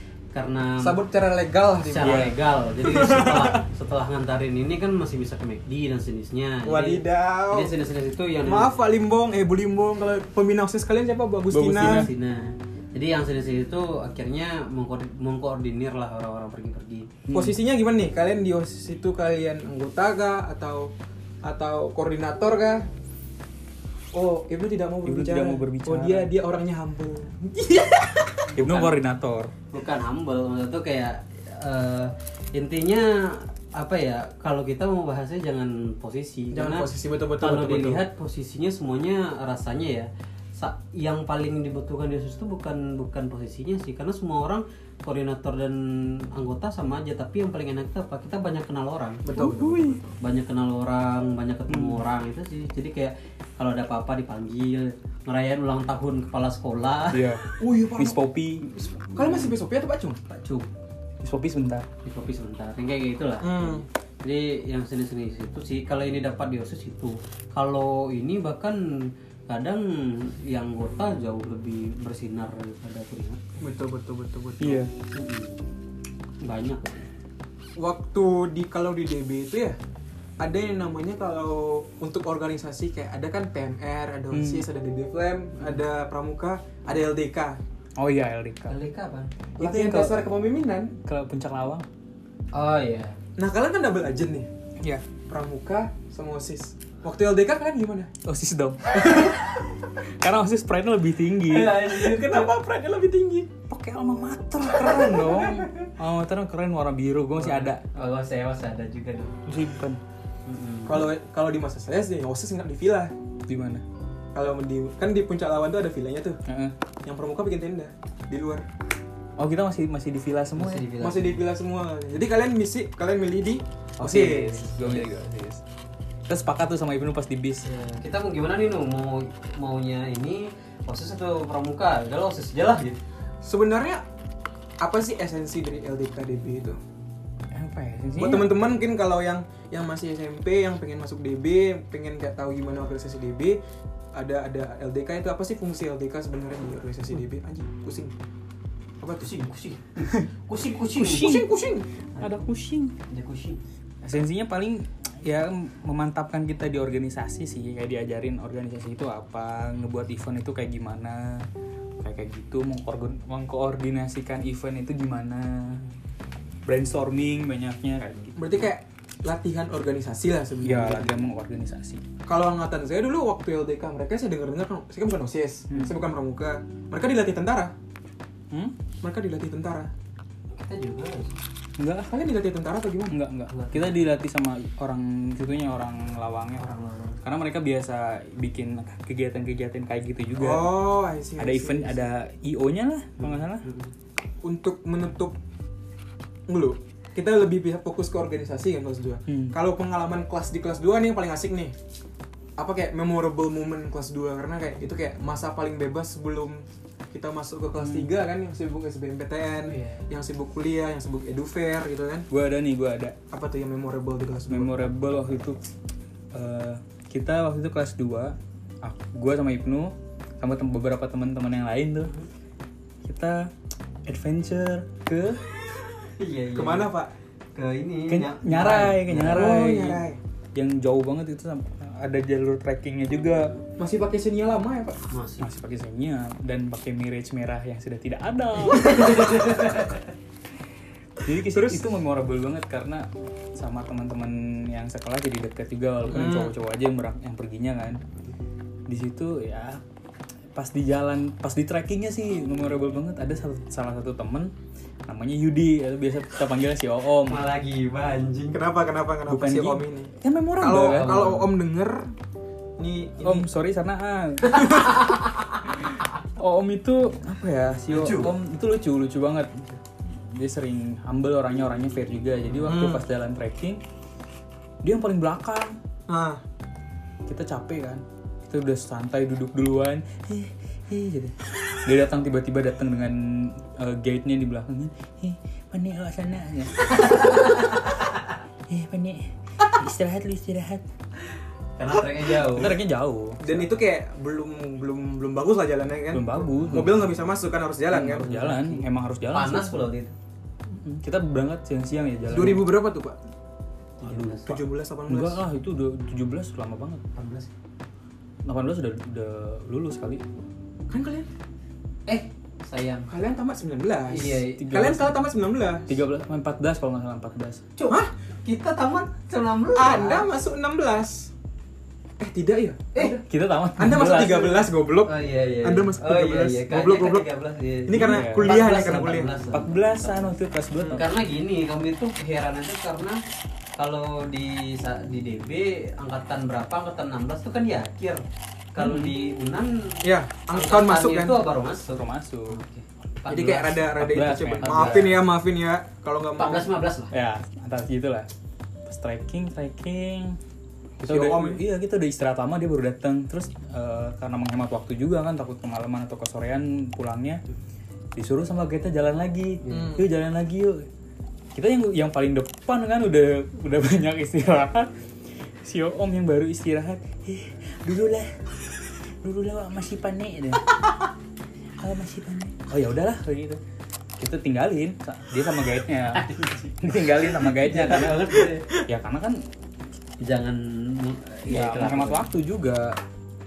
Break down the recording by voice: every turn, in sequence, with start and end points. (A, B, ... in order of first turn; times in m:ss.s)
0:00.3-0:01.0 A
0:00.8-0:03.6 B
0:01.8-0:08.7 A
0:02.0-0:02.4 C
0:06.6-0:07.7 B
0:08.4-0:12.1 B
0:11.5-0:12.1 C
0:11.8-0:17.1 A
0:17.3-0:17.6 C
0:17.3-0:20.9 B
0:21.4-0:22.9 B
0:24.1-0:28.5 B
0:25.0-0:26.3 C
0:28.5-0:29.0 A
0:28.6-0:29.5 C
0:29.7-0:49.2 A
0:36.5-0:38.0 B
0:49.2-0:50.2 B
0:49.3-0:50.0 C
0:50.2-0:57.4 A
0:51.7-0:52.0 C
0:57.1-0:58.7 C
0:57.6-0:58.2 B
0:58.8-1:00.2 B
1:00.3-1:00.7 A
1:01.2-1:01.8 C
1:02.0-1:13.4 A
1:03.4-1:03.8 B
1:13.6-1:14.9 B
1:14.6-1:14.9 C
1:15.1-1:15.6 A
1:16.4-1:17.1 A
1:17.8-1:19.8 B
1:20.4-1:27.6 B
1:24.3-1:24.6 C
1:28.0-1:28.8 C
1:28.7-1:29.3 A
1:29.6-1:30.3 C
1:29.6-1:31.0 B
1:31.0-1:31.8 C
1:32.5-1:33.2 A
1:33.4-1:34.5 B
1:35.2-1:38.1 B
1:38.2-1:41.9 C
1:39.0-1:39.3 B
1:41.4-1:42.5 A
1:41.8-1:43.5 B
1:43.7-1:47.8 C
1:44.9-1:45.5 B
1:45.1-1:45.8 A
1:47.4-1:49.4 A
1:49.4-1:50.0 C
1:50.4-1:51.0 A
1:50.8-1:53.1 B
1:53.5-1:53.8 C
1:54.3-1:56.4 B
1:56.5-1:56.7 C
1:57.0-1:58.6 B
1:59.4-2:00.9 C
2:00.6-2:01.4 A
2:01.0-2:04.5 B
2:04.0-2:05.1 A
2:04.0-2:05.6 C
2:06.3-2:07.6 C
2:07.6-2:13.0 A
2:13.4-2:14.0 B
2:14.8-2:16.8 B
2:17.5-2:18.5 C
2:18.2-2:23.6 B
2:24.1-2:28.1 B
2:29.0-2:29.5 B
2:29.2-2:31.4 A
2:31.0-2:31.9 B
2:31.0-2:31.6 C
2:32.2-2:32.9 C
2:33.1-2:33.6 A
2:34.0-2:41.5 C
2:42.0-2:45.8 C
2:46.7-2:48.6 C
2:48.4-2:51.1 B
2:50.6-2:52.0 C
2:52.2-2:57.7 B
2:55.7-2:56.0 C
2:59.0-2:59.9 B
3:00.5-3:01.4 A
3:01.8-3:02.2 C
3:02.1-3:03.2 B
3:03.1-3:06.7 C
3:03.5-3:04.0 A
3:06.6-3:07.2 A
3:07.2-3:10.8 C
3:10.4-3:12.0 B
3:11.4-3:13.6 C
3:13.2-3:13.9 A
3:14.4-3:15.4 B
3:16.5-3:21.8 B
3:19.3-3:19.6 C
3:22.6-3:32.3 B
3:27.8-3:28.1 C
3:29.7-3:30.0 A
3:32.3-3:33.2 C
3:33.3-3:34.9 B
3:34.5-3:35.6 C
3:36.3-3:42.1 C
3:43.0-3:43.5 C
3:44.0-3:45.4 C
3:46.2-3:46.9 A
3:46.5-3:47.1 B
3:47.5-3:49.4 A
3:48.1-3:50.0 C
3:49.2-3:50.2 B
3:50.5-3:53.6 C
3:53.8-3:55.0 B
3:55.1-3:55.5 A
3:55.4-3:59.8 C
3:58.6-4:00.0 A
4:01.2-4:08.0 C
4:01.4-4:01.8 B
4:06.1-4:06.5 B
4:08.9-4:09.8 C
4:10.5-4:14.5 C
4:15.1-4:17.5 C
4:17.2-4:18.6 A
4:18.5-4:22.1 B
4:19.3-4:21.5 C
4:22.8-4:23.5 B
4:23.2-4:25.2 C
4:24.6-4:25.2 A
4:25.7-4:33.8 C
4:27.9-4:28.3 A
4:32.6-4:33.0 B
4:34.8-4:35.8 C
4:36.1-4:36.4 B
4:37.3-4:48.0 C
4:46.9-4:48.2 A
4:48.7-4:50.8 C
4:51.8-4:52.8 A
4:52.3-4:53.8 C
4:53.4-4:58.3 B
4:56.1-4:57.0 C
4:57.9-4:59.9 C
4:58.0-5:00.1 A
5:00.7-5:02.7 C
5:02.3-5:03.2 B
5:04.0-5:04.6 A
5:04.1-5:05.4 B
5:05.1-5:07.0 C
5:07.1-5:07.5 A
5:08.4-5:10.2 C
5:10.9-5:11.3 B
5:12.1-5:13.1 A
5:13.1-5:15.9 B
5:14.1-5:14.6 A
5:14.5-5:15.2 C
5:15.9-5:17.6 C
5:17.8-5:20.3 A
5:19.7-5:21.3 B
5:22.2-5:23.2 B
5:23.2-5:24.7 C
5:23.8-5:27.3 B
5:25.0-5:30.3 A
5:27.9-5:29.4 B
5:28.0-5:28.7 C
5:29.5-5:31.1 C
5:30.8-5:31.0 B
5:30.9-5:33.2 A
5:33.8-5:43.9 A
5:38.8-5:39.1 C
5:40.0-5:41.4 B
5:41.9-5:42.6 C
5:43.3-5:46.7 B
5:44.0-5:45.2 C
5:44.6-5:45.1 A
5:46.4-5:47.1 A
5:47.1-5:48.3 C
5:48.8-5:50.4 C
5:51.0-5:57.4 C
5:51.0-5:51.6 B
5:58.2-6:00.8 C
5:59.6-6:00.0 A
5:59.7-6:00.1 B
6:01.5-6:04.9 C
6:05.6-6:10.7 C
6:11.8-6:13.6 C
6:14.2-6:16.3 C
6:16.1-6:18.7 A
6:16.8-6:19.4 C
6:20.2-6:22.3 A
6:21.5-6:23.0 C